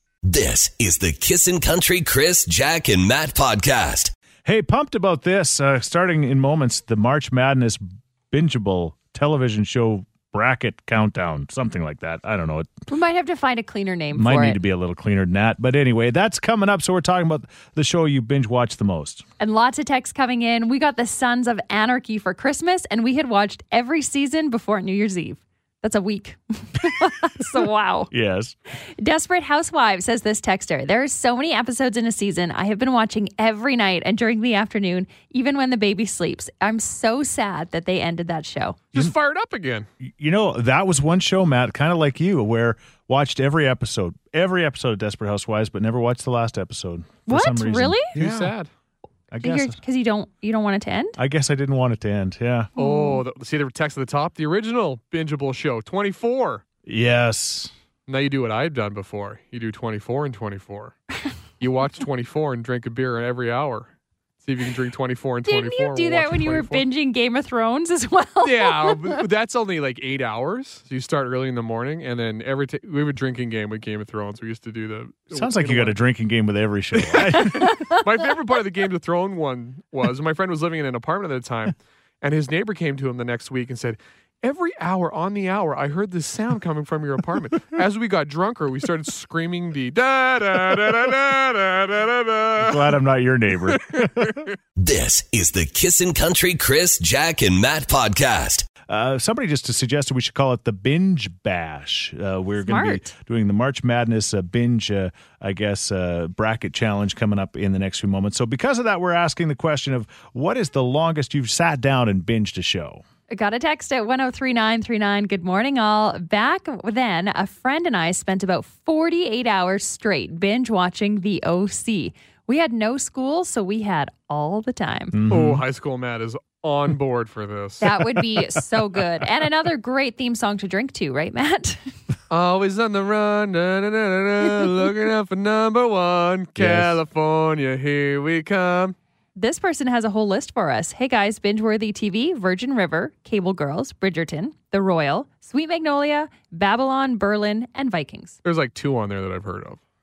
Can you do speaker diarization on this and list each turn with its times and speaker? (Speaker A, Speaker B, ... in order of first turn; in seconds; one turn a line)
Speaker A: 0.2-4.1
Speaker B: 4.5-12.7
Speaker C: 12.9-14.6
Speaker B: 14.1-19.2
Speaker C: 19.4-28.1
Speaker B: 28.1-28.5
Speaker C: 29.0-38.8
Speaker D: 38.9-39.9
Speaker B: 40.0-48.5
Speaker C: 47.3-48.1
Speaker D: 48.1-48.7
Speaker B: 49.3-49.8
Speaker C: 49.4-51.2
Speaker B: 51.2-52.7
Speaker C: 52.8-53.2
Speaker D: 52.8-56.6
Speaker B: 56.9-57.7
Speaker D: 58.1-61.0
Speaker D: 61.6-63.9
Speaker D: 64.4-66.8
Speaker C: 65.5-69.2
Speaker D: 68.4-76.0
Speaker B: 75.3-77.8
Speaker D: 77.0-93.0
Speaker C: 77.5-78.0
Speaker B: 92.6-94.4
Speaker D: 93.7-94.5
Speaker A: 94.8-98.7
Speaker B: 98.9-113.0
Speaker C: 102.6-103.1
Speaker C: 113.3-125.2
Speaker B: 125.1-125.6
Speaker D: 125.3-128.2
Speaker C: 127.8-131.9
Speaker D: 132.3-138.9
Speaker B: 136.6-137.0
Speaker C: 139.4-148.4
Speaker D: 148.4-149.8